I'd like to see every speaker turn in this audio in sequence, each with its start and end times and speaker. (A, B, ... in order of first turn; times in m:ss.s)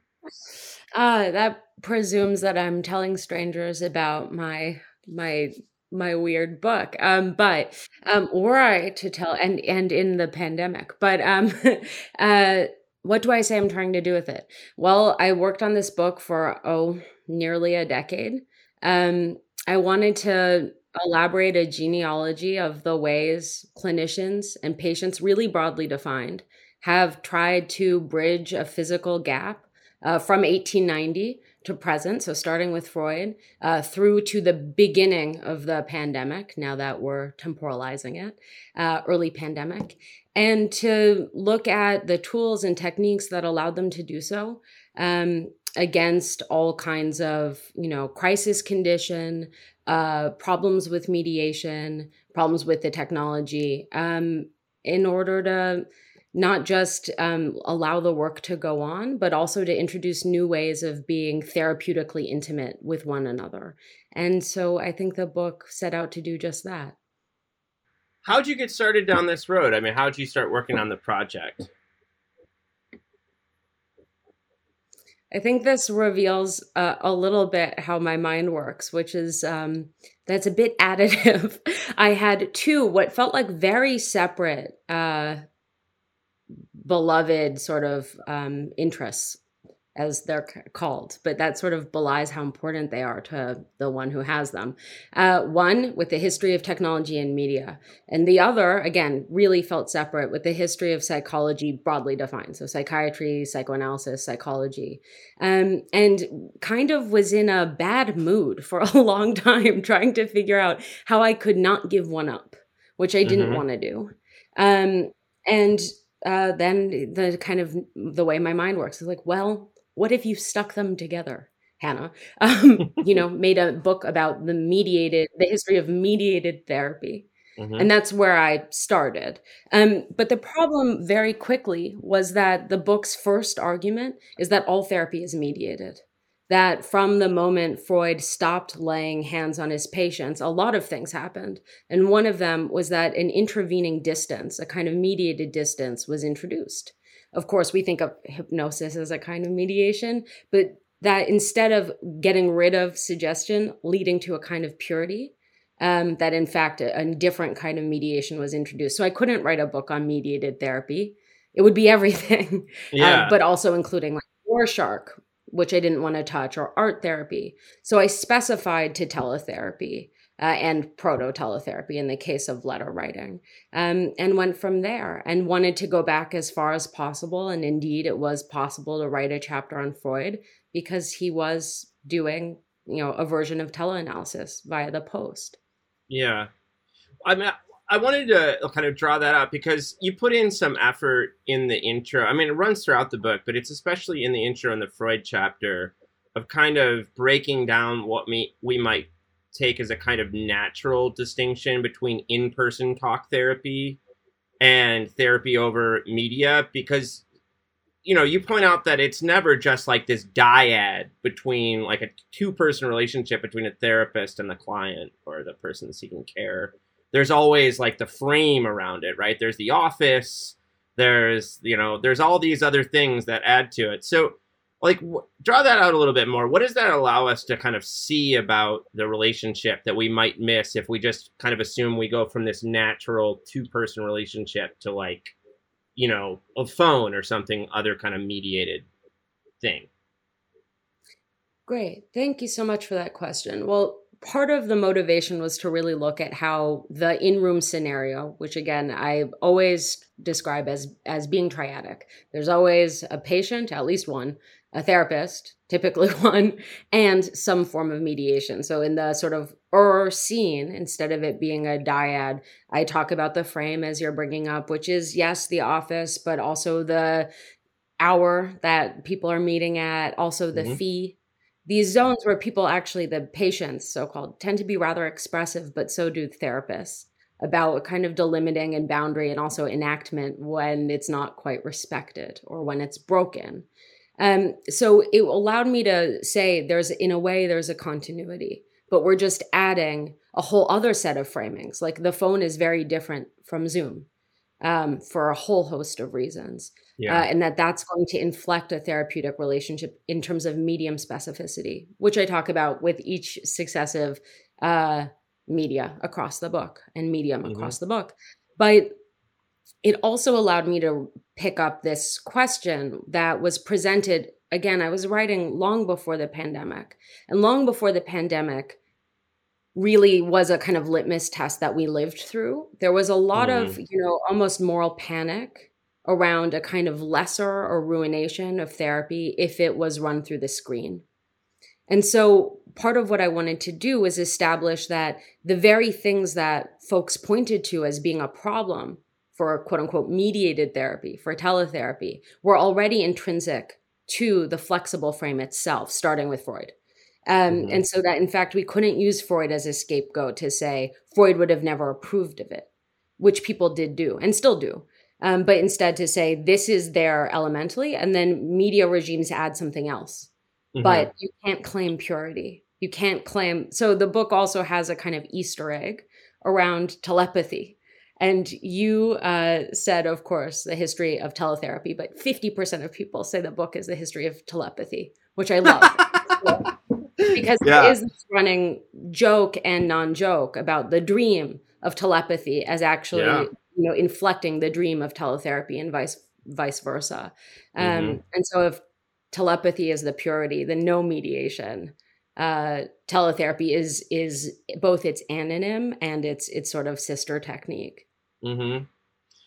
0:01.0-1:07.0 A
1:08.2-1:11.7 B
1:15.3-1:25.4 A
1:26.8-1:29.4 A
1:30.0-3:05.6 A
1:53.2-1:53.6 B
2:07.6-2:07.9 B
2:42.9-2:43.4 B
3:06.1-3:06.5 B
3:07.2-3:24.0 B
3:24.6-3:27.2 B
3:28.0-3:55.4 B
3:56.0-3:58.9 B
3:59.6-3:59.9 B
4:01.7-4:27.3 A
4:28.0-4:43.7 A
4:30.5-4:30.8 B
4:44.2-4:54.1 A
4:54.6-5:08.9 A
4:57.0-4:57.3 B
5:07.4-5:07.8 B
5:09.8-5:18.8 A
5:19.8-5:31.0 A
5:23.3-5:23.8 B
5:31.9-5:46.8 A
5:47.3-5:52.7 A
5:47.5-5:47.8 B
5:53.2-6:00.3 A
6:00.8-6:01.1 B
6:00.8-6:16.7 A
6:15.7-6:18.0 B
6:17.3-6:28.8 A
6:23.1-6:23.5 B
6:27.8-6:28.2 B
6:29.3-6:38.1 A
6:38.4-6:38.9 B